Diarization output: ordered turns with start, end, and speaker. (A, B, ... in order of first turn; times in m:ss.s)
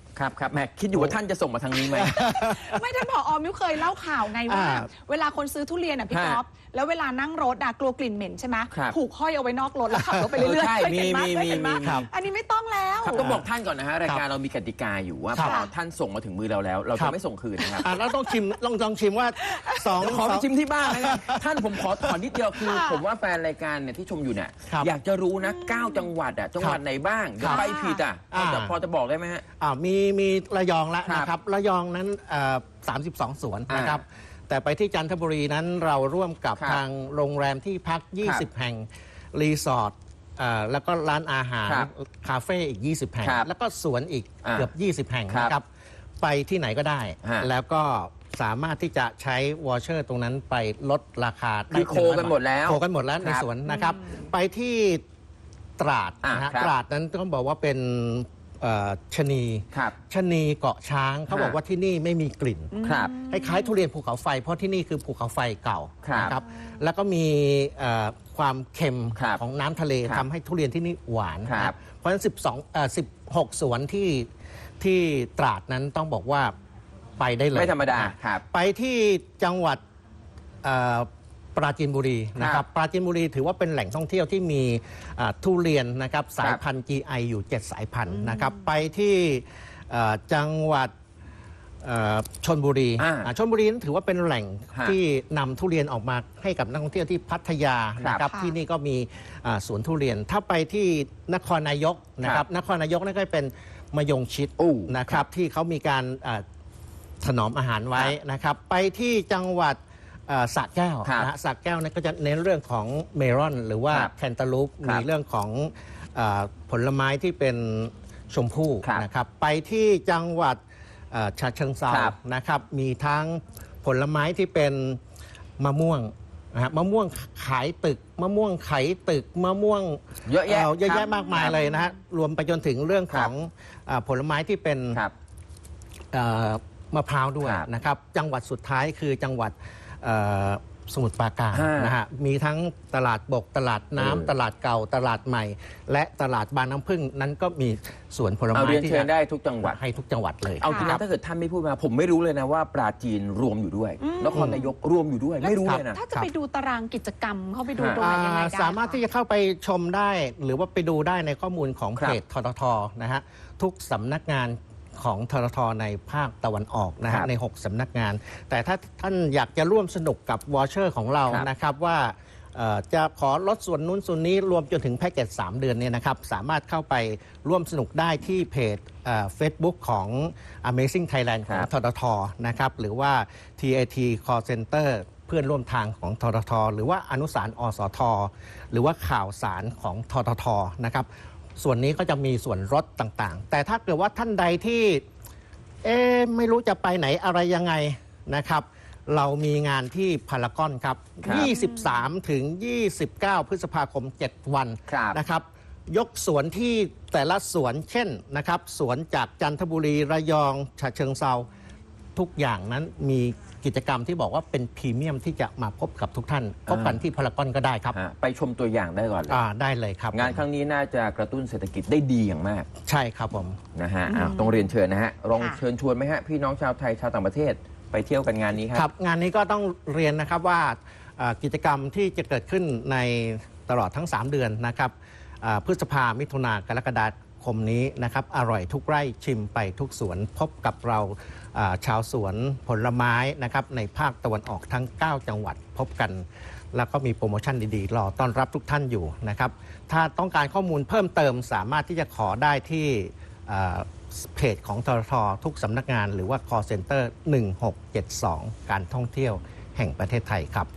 0:00.2-0:02.3 A
0:01.8-0:02.8 B
0:02.4-0:13.2 C
0:04.5-0:04.9 B
0:06.1-0:06.4 A
0:08.7-0:09.0 A
0:09.9-0:10.4 B
0:10.4-0:12.1 A
0:11.8-0:12.1 B
0:13.0-0:17.9 A
0:13.1-0:13.4 B
0:15.3-0:15.6 B
0:15.4-0:15.7 C
0:17.7-0:22.2 B
0:17.8-0:18.5 C
0:19.4-0:19.9 C
0:20.0-0:29.4 A
0:22.6-0:23.0 C
0:25.4-0:26.1 C
0:27.4-0:27.7 B
0:27.4-0:28.0 C
0:28.3-0:28.8 B
0:29.6-0:45.6 B
0:31.0-0:31.3 A
0:33.7-0:34.0 A
0:43.2-0:43.5 A
0:44.4-0:44.7 A
0:45.3-0:45.5 A
0:46.2-0:55.0 B
0:47.2-0:47.5 A
0:51.7-0:53.4 A
0:53.6-0:54.3 C
0:55.8-1:14.3 B
0:56.2-0:56.7 A
1:01.3-1:01.6 A
1:02.7-1:03.8 C
1:02.8-1:03.1 A
1:06.0-1:06.4 A
1:06.3-1:06.7 C
1:09.1-1:09.4 A
1:11.4-1:11.8 A
1:14.8-1:16.5 B
1:17.2-1:19.8 B
1:17.5-1:18.4 A
1:20.6-1:30.9 B
1:22.4-1:22.6 A
1:28.1-1:28.6 C
1:31.8-1:46.4 B
1:33.0-1:33.3 A
1:38.0-1:38.3 A
1:38.3-1:38.6 C
1:44.6-1:45.2 A
1:47.2-2:00.6 B
1:51.0-1:51.3 A
2:01.1-2:05.0 B
2:01.9-2:02.2 A
2:05.6-2:15.0 B
2:10.2-2:11.6 A
2:11.1-2:11.7 C
2:16.1-2:29.1 B
2:17.4-2:17.7 A
2:21.5-2:21.9 A
2:24.0-2:24.3 A
2:28.5-2:29.8 A
2:29.6-2:31.0 B
2:30.6-2:36.0 A
2:30.6-2:31.0 C
2:34.0-2:34.7 C
2:34.3-2:34.6 B
2:35.4-2:39.0 C
2:35.6-2:36.3 B
2:37.8-2:38.0 A
2:38.0-3:15.0 B
3:15.8-3:31.5 B
3:21.2-3:21.5 A
3:21.3-3:22.0 C
3:24.9-3:25.2 A
3:32.2-3:38.0 B
3:36.7-3:37.0 A
3:37.9-3:39.4 A
3:39.3-3:40.4 B
3:40.1-3:42.7 A
3:42.8-3:43.6 B
3:43.8-3:48.9 A
3:44.1-3:44.7 C
3:45.3-3:45.6 C
3:48.7-4:20.7 B